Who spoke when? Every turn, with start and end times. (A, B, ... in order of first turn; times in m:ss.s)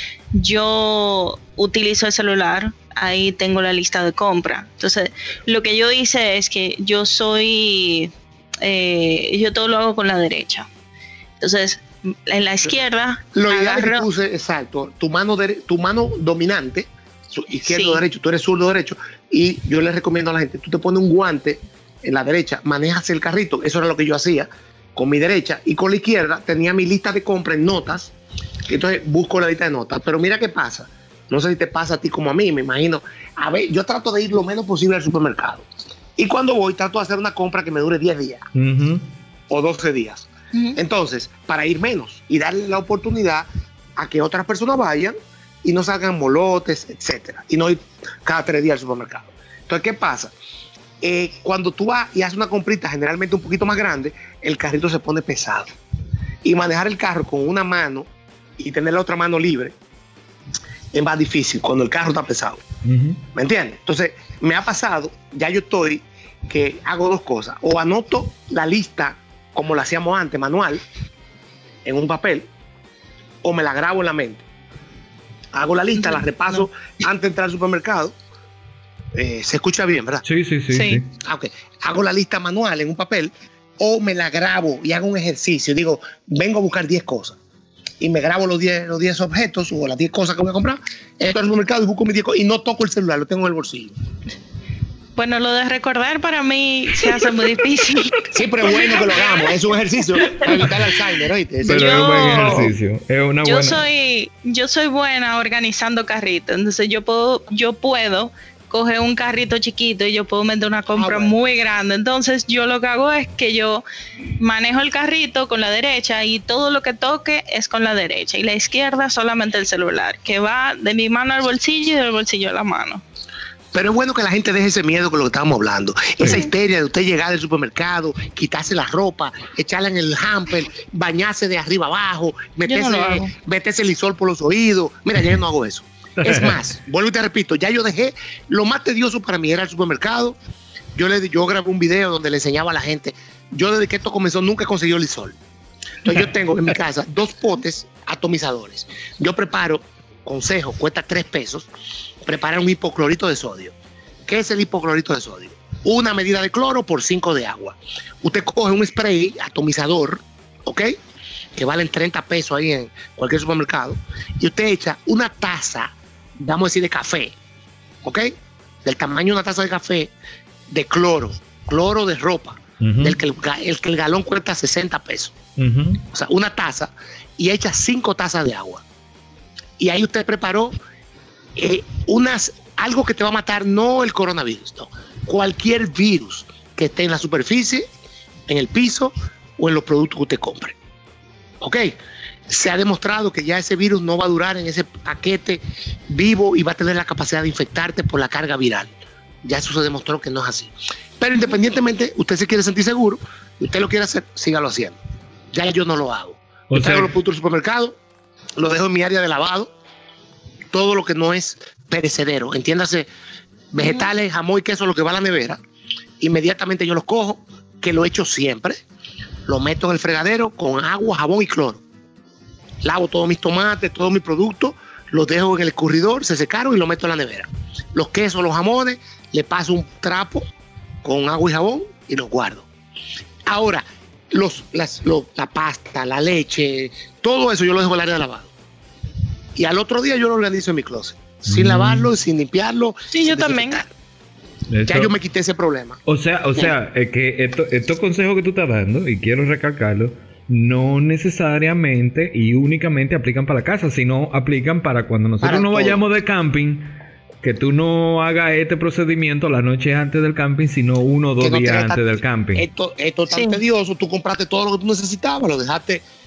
0:00.3-0:10.7 A
0:11.4-0:14.1 A
0:13.3-0:28.1 B
0:17.6-0:18.0 A
0:28.7-0:35.6 B
0:36.2-0:38.5 B
0:38.5-0:39.0 C
0:39.5-0:50.3 B
0:40.5-0:40.8 A
0:51.0-0:55.7 B
0:56.4-0:59.8 B
1:00.9-1:02.6 B
1:02.8-1:03.2 C
1:03.3-1:10.8 B
1:11.8-1:12.5 B
1:13.4-1:14.4 B
1:15.5-1:18.1 B
1:16.0-1:16.2 A
1:19.1-1:20.2 B
1:20.2-1:21.1 C
1:20.7-1:21.0 A
1:21.2-1:27.4 B
1:28.0-1:33.9 B
1:35.2-1:39.5 A
1:38.3-1:42.7 B
1:40.2-1:40.7 A
1:40.4-1:40.8 C
1:41.6-1:42.7 A
1:41.6-1:43.8 C
1:43.4-1:53.8 A
1:50.9-1:51.3 B
1:54.4-2:03.0 A
2:03.7-2:20.4 B
2:12.6-2:13.3 A
2:16.2-2:16.6 C
2:20.9-2:25.4 B
2:26.0-2:31.7 B
2:32.2-2:33.7 B
2:34.2-2:40.9 B
2:41.6-2:47.4 B
2:48.0-2:50.1 B
2:50.7-2:55.4 B
2:52.8-2:53.2 C
2:55.6-2:56.0 C
2:56.1-2:58.8 B
2:59.8-3:00.8 B
3:01.6-3:07.9 B
3:08.5-3:10.8 B
3:11.6-3:11.9 B
3:12.5-3:18.9 B
3:19.4-3:25.0 B
3:25.5-3:28.0 B
3:26.7-3:27.1 C
3:28.6-3:29.7 B
3:30.7-3:33.1 B
3:33.7-3:35.6 B
3:36.2-3:38.8 B
3:39.4-3:41.8 B
3:42.8-3:50.5 B
3:51.0-3:52.7 B
3:53.4-3:58.5 B
3:59.6-4:03.9 B
4:01.5-4:02.1 C
4:03.1-4:03.8 A
4:04.7-4:05.1 C
4:04.8-4:06.0 B
4:06.1-4:22.6 C
4:15.4-4:16.0 B
4:21.4-4:26.0 B
4:23.3-4:23.6 A